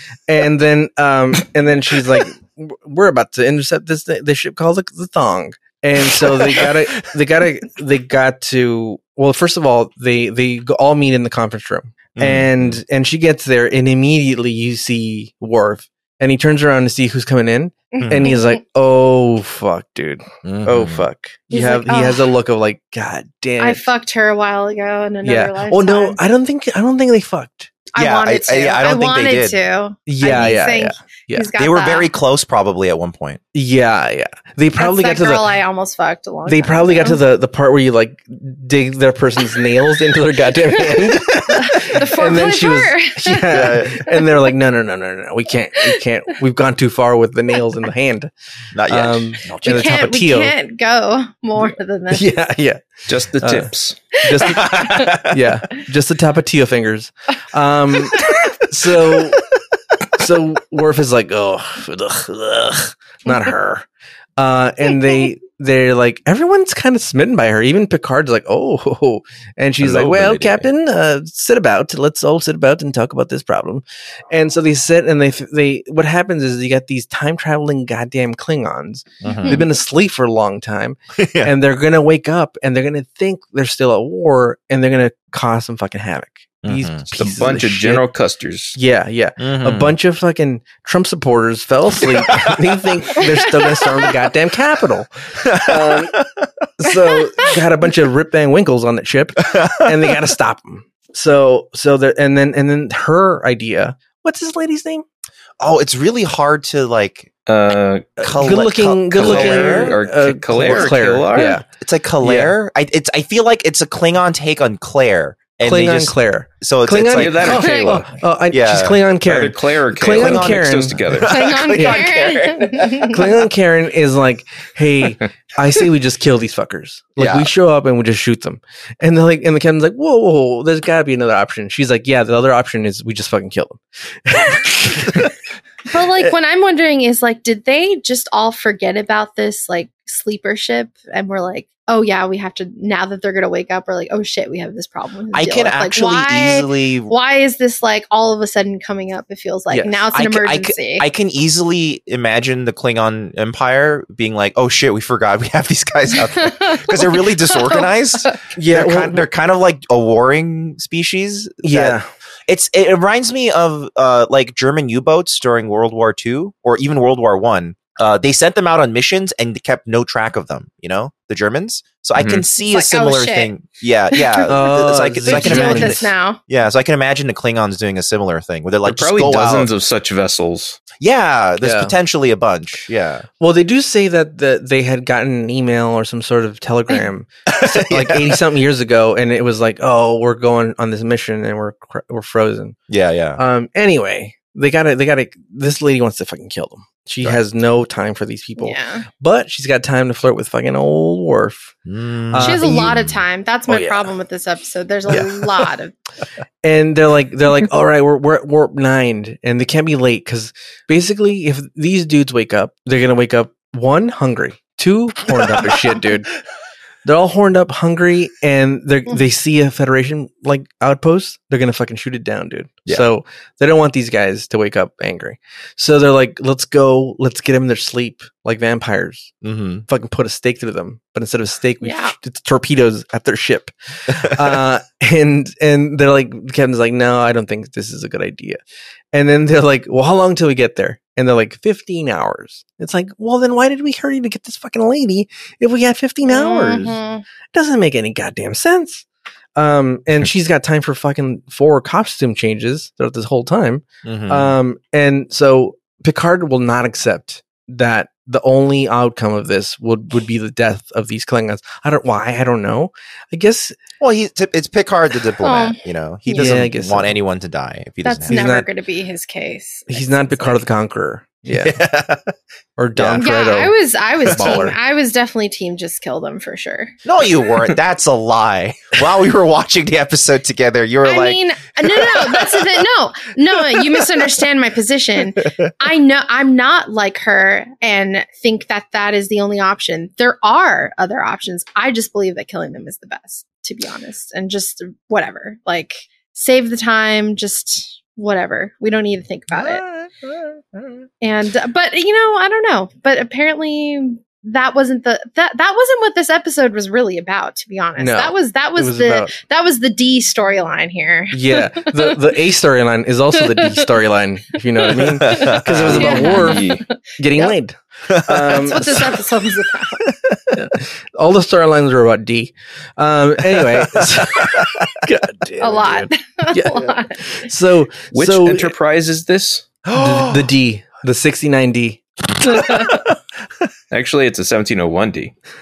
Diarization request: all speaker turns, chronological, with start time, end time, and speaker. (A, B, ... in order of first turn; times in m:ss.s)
0:00.3-0:23.8 A
0:06.1-0:06.7 B
0:12.2-0:12.8 B
0:17.9-0:18.6 C
0:18.0-0:18.3 B
0:20.4-0:21.1 B
0:21.5-0:22.3 C
0:23.6-0:26.2 C
0:25.2-0:27.7 A
0:27.9-0:32.1 C
0:27.9-0:29.6 B
0:30.1-0:31.5 A
0:31.6-0:33.4 B
0:33.5-0:35.4 A
0:34.8-0:37.2 C
0:36.4-0:48.3 A
0:41.5-0:44.3 C
0:43.5-0:44.0 B
0:48.7-0:50.0 B
0:48.9-0:50.5 A
0:49.6-0:52.2 C
0:52.1-0:52.9 A
0:53.1-0:54.0 D
0:53.4-0:53.7 A
0:54.2-0:59.4 A
0:54.3-0:55.1 C
0:54.4-0:55.4 B
0:58.9-0:59.3 B
1:00.1-1:03.8 A
1:04.4-1:28.0 A
1:09.8-1:10.6 D
1:19.2-1:19.6 B
1:19.2-1:19.6 C
1:21.2-1:21.5 B
1:26.6-1:27.0 B
1:27.2-1:28.8 D
1:28.7-1:36.2 A
1:29.4-1:30.0 B
1:32.1-1:32.6 B
1:35.4-1:36.5 B
1:36.8-1:45.0 A
1:39.4-1:40.0 B
1:45.6-1:47.3 B
1:47.5-1:48.1 D
1:48.2-1:50.0 B
1:48.2-1:51.6 A
1:49.2-1:51.6 D
1:50.5-1:51.0 B
1:51.8-1:57.6 B
1:52.2-1:52.5 A
1:55.6-2:01.1 A
1:57.1-1:58.1 D
1:57.5-1:58.0 C
1:58.5-1:59.0 B
1:59.2-2:01.4 D
2:00.1-2:03.3 B
2:01.3-2:03.2 C
2:01.7-2:02.1 A
2:03.0-2:15.3 A
2:07.2-2:07.5 B
2:15.9-2:31.0 C
2:25.3-2:27.1 B
2:29.7-2:30.0 A
2:30.1-2:59.7 B
2:36.1-2:38.3 C
2:38.5-2:39.3 A
2:41.6-2:42.1 A
2:52.2-2:52.4 D
2:52.6-2:53.5 C
2:54.1-2:56.4 C
2:54.5-2:56.1 A
2:58.8-3:00.8 D
3:01.0-3:03.2 B
3:01.6-3:01.9 A
3:03.4-3:12.8 A
3:07.5-3:08.4 B
3:12.9-3:13.4 B
3:13.4-3:21.8 A
3:18.6-3:19.1 C
3:21.8-3:23.2 B
3:22.3-3:22.9 A
3:22.4-3:25.9 C
3:23.7-3:24.1 A
3:25.1-3:25.6 A
3:26.6-3:36.3 A
3:37.0-3:49.3 A
3:49.4-3:49.8 B
3:49.9-3:58.6 A
3:51.8-3:52.1 C
3:59.1-4:07.0 A
4:06.2-4:07.2 C
4:07.5-4:09.0 A
4:09.6-4:23.8 A
4:14.0-4:14.5 B
4:24.0-4:28.5 B
4:25.4-4:26.6 C
4:26.3-4:27.2 A
4:28.0-4:30.1 C
4:28.3-4:28.7 A
4:29.9-4:31.8 A
4:31.5-4:32.3 B
4:32.8-4:34.8 A
4:32.9-4:33.2 B
4:33.2-4:36.9 C
4:34.2-4:34.7 B
4:37.0-4:42.8 B
4:41.0-4:59.8 C
4:43.6-4:44.0 B
4:59.6-5:00.8 B
5:01.2-5:12.2 C
5:08.0-5:09.3 A
5:11.3-5:19.2 A
5:13.4-5:13.8 C
5:14.9-5:17.5 C
5:14.9-5:16.4 B
5:15.8-5:16.8 D
5:18.1-5:19.1 B
5:18.4-5:20.1 C
5:20.1-5:20.6 B
5:20.5-5:28.7 A
5:23.6-5:24.9 B
5:25.6-5:27.4 C
5:28.1-5:29.7 D
5:29.8-5:30.6 B
5:29.9-5:32.9 A
5:32.5-5:33.1 B
5:33.9-5:35.3 D